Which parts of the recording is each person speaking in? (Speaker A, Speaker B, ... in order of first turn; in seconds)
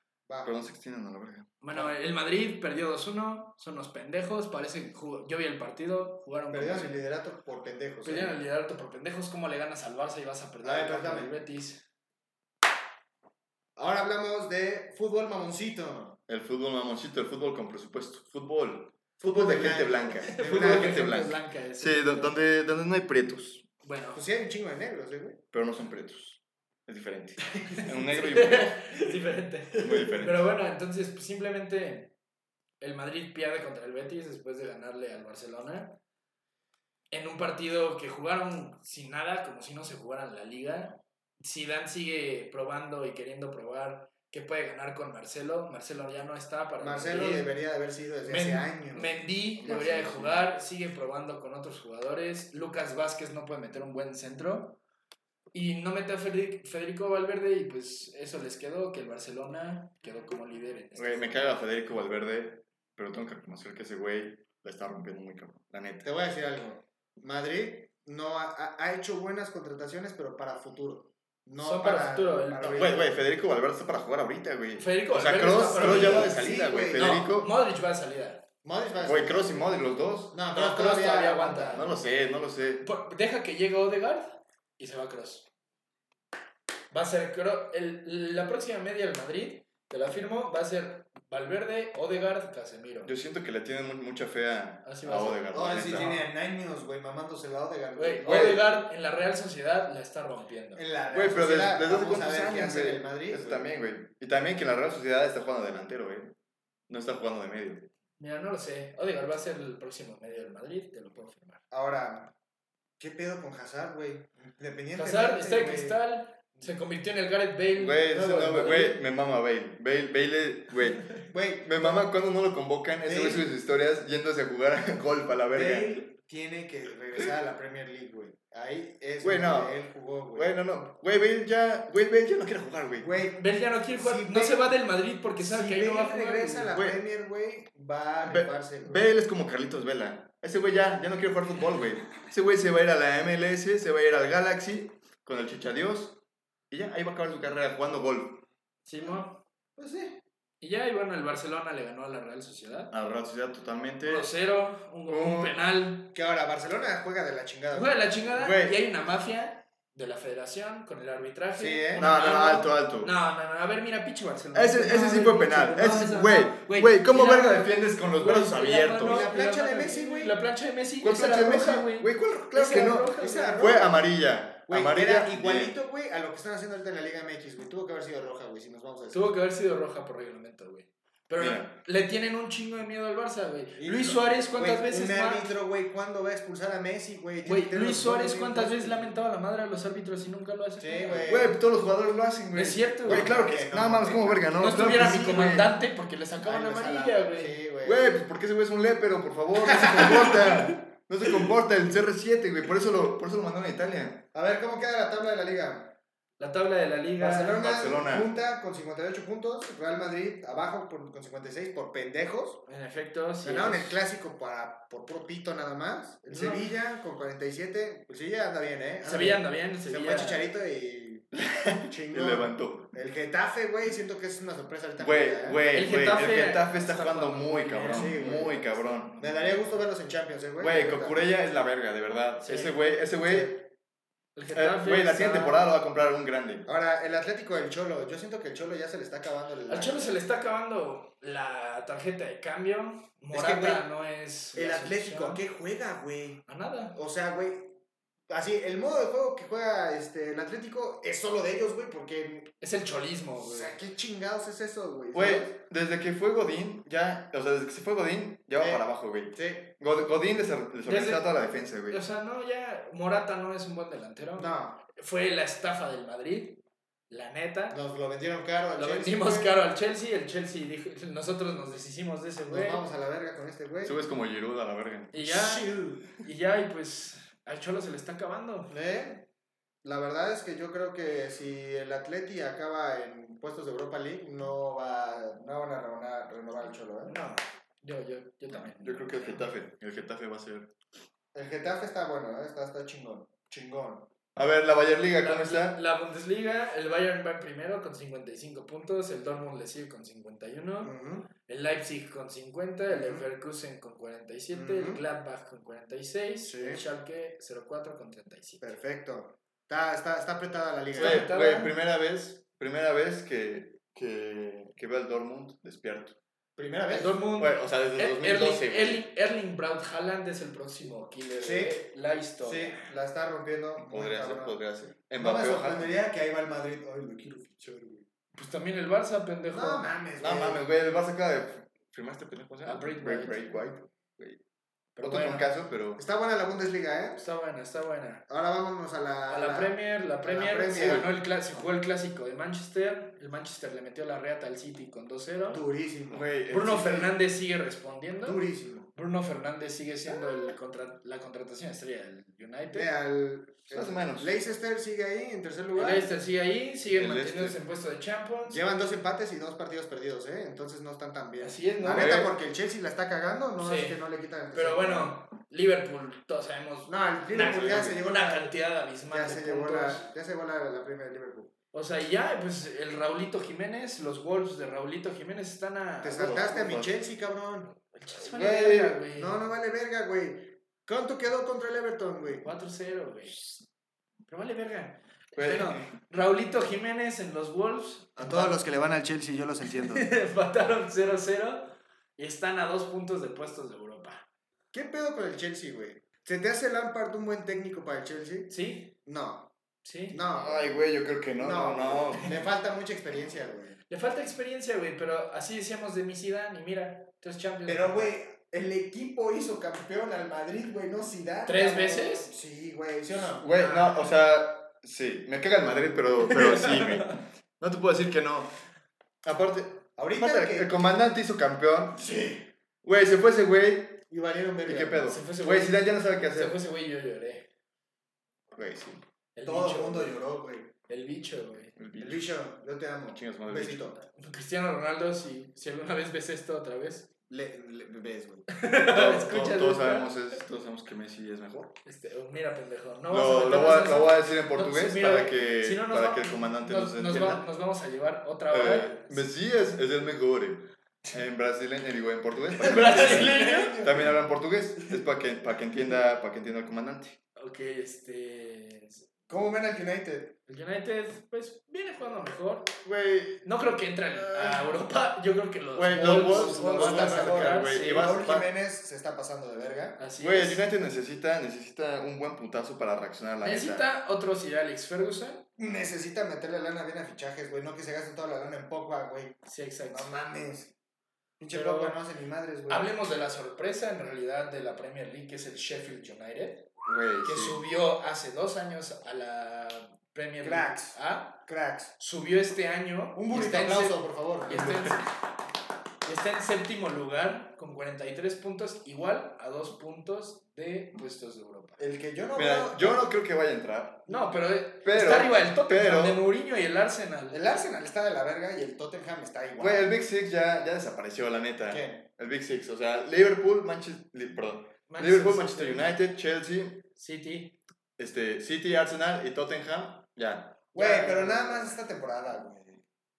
Speaker A: 0.3-0.6, 6.5-8.4, 10.6-11.3, 13.8-16.2, 19.2-21.1, 24.1-25.4, 46.8-49.2, 66.0-73.1, 75.6-77.3, 78.6-79.7, 80.3-82.0, 95.5-98.6, 100.8-103.7, 111.7-112.3, 113.0-116.0, 121.3-122.1, 123.0-123.5, 125.5-130.5, 133.0-134.7, 135.4-139.0, 149.8-150.2, 156.1-158.2, 161.6-162.1, 169.0-170.4, 173.2-179.3, 183.8-189.1, 190.8-191.6, 193.1-195.5, 196.4-198.2, 199.7-200.7, 204.3-205.9, 207.2-212.6, 213.4-221.3, 221.9-225.6, 227.9-231.3, 233.2-233.5, 236.7-240.1, 243.3-243.8, 244.5-247.8, 248.3-252.5, 253.4-255.5, 258.6-259.7, 264.4-264.8, 267.7-269.6, 272.5-274.0, 275.2-276.1, 278.7-279.3, 279.8-287.1, 291.3-294.1, 300.8-301.3, 302.9-303.2, 304.5-305.0, 306.4-306.8, 308.6-311.3, 316.6-317.2, 321.4-321.8, 322.4-324.6, 325.2-328.1, 329.5-330.6, 336.0-337.2, 338.3-341.1, 345.5-346.3, 348.2-348.9, 352.7-356.1, 358.5-365.2, 366.9-368.5, 369.1-371.5, 376.0-377.8, 379.1-382.5, 388.2-390.1, 394.7-398.5, 399.1-399.5, 400.1-400.8, 401.4-403.8, 407.7-414.1, 420.0-420.7, 421.9-422.5, 424.1-425.1, 429.4-430.7, 432.0-434.0, 437.3-438.5, 452.7-454.1, 459.3-460.4, 466.0-470.0, 475.6-479.4, 479.9-480.7, 481.4-482.9, 490.4-491.9, 493.1-494.6, 501.8-503.1, 507.3-509.9, 511.7-512.0, 520.7-522.8
Speaker B: 0.4-1.5, 16.3-23.7, 25.5-29.0, 29.8-30.4, 49.6-50.5, 61.0-66.1, 72.7-77.5, 79.0-80.4, 81.7-82.8, 93.1-96.1, 98.2-98.7, 101.1-106.3, 106.9-107.9, 117.7-126.0, 129.2-129.8, 130.3-133.2, 136.7-137.0, 138.2-146.2, 146.7-148.5, 152.9-154.3, 155.1-155.6, 158.3-158.8, 162.0-163.1, 164.5-169.2, 171.0-175.7, 181.4-181.8, 191.2-195.7, 197.8-204.3, 207.6-208.3, 221.3-222.9, 225.0-229.3, 230.6-233.7, 234.5-236.7, 255.1-262.0, 273.8-275.2, 288.5-290.7, 294.4-295.8, 311.0-316.2, 317.4-319.1, 323.8-325.9, 330.2-334.4, 335.0-336.0, 340.8-341.1, 346.1-347.1, 353.7-354.3, 356.9-357.6, 361.9-362.3, 367.4-367.9, 376.2-376.9, 378.2-379.0, 385.4-385.9, 400.4-402.4, 413.4-418.5, 419.2-422.0, 422.8-424.0, 424.6-426.5, 428.5-429.0, 431.8-432.4, 433.1-433.9, 438.8-441.8, 443.1-447.4, 448.5-457.2, 462.9-463.4, 465.8-468.5, 470.2-473.9, 486.9-487.6, 494.5-495.0, 502.4-504.1, 504.8-506.2, 509.6-516.9, 518.0-521.7
Speaker C: 1.6-7.0, 8.0-11.9, 20.2-22.4, 23.8-24.2, 27.8-32.1, 32.8-36.0, 37.1-47.5, 48.3-54.8, 55.5-61.6, 71.6-73.0, 74.8-78.5, 80.5-81.9, 82.8-85.5, 86.9-93.1, 94.8-96.2, 98.0-100.8, 108.2-111.6, 115.0-119.0, 133.3-136.7, 148.9-149.4, 150.6-152.9, 154.0-156.1, 157.7-173.7, 179.1-185.5, 187.4-191.3, 192.6-193.4, 194.6-197.6, 206.4-207.7, 212.7-214.0, 216.3-216.7, 219.0-220.4, 225.7-229.7, 232.4-232.8, 234.3-235.6, 239.7-245.4, 246.5-247.0, 252.6-253.8, 260.9-261.3, 261.9-267.8, 268.8-272.8, 275.1-278.7, 287.1-289.4, 295.2-308.8, 310.9-311.7, 316.9-322.9, 328.4-329.9, 332.6-333.5, 335.0-335.4, 337.2-338.2, 339.3-345.6, 346.5-348.4, 348.9-352.9, 355.8-358.6, 361.4-362.2, 363.6-370.1, 371.7-376.4, 377.9-379.4, 382.4-383.5, 384.3-388.6, 389.8-394.2, 398.5-398.9, 399.8-400.2, 403.9-408.1, 411.5-412.3, 416.2-417.2, 425.0-427.5, 429.4-430.2, 430.9-431.7, 434.2-437.1, 438.5-440.2, 441.8-449.2, 452.6-453.8, 457.4-459.1, 460.5-462.8, 463.4-468.1, 470.0-470.6, 473.4-475.4, 479.5-480.1, 481.5-482.0, 482.7-486.7, 487.2-491.4, 492.0-495.1, 496.0-501.8, 504.1-507.4, 514.9-516.0, 517.0-517.6, 520.8-521.4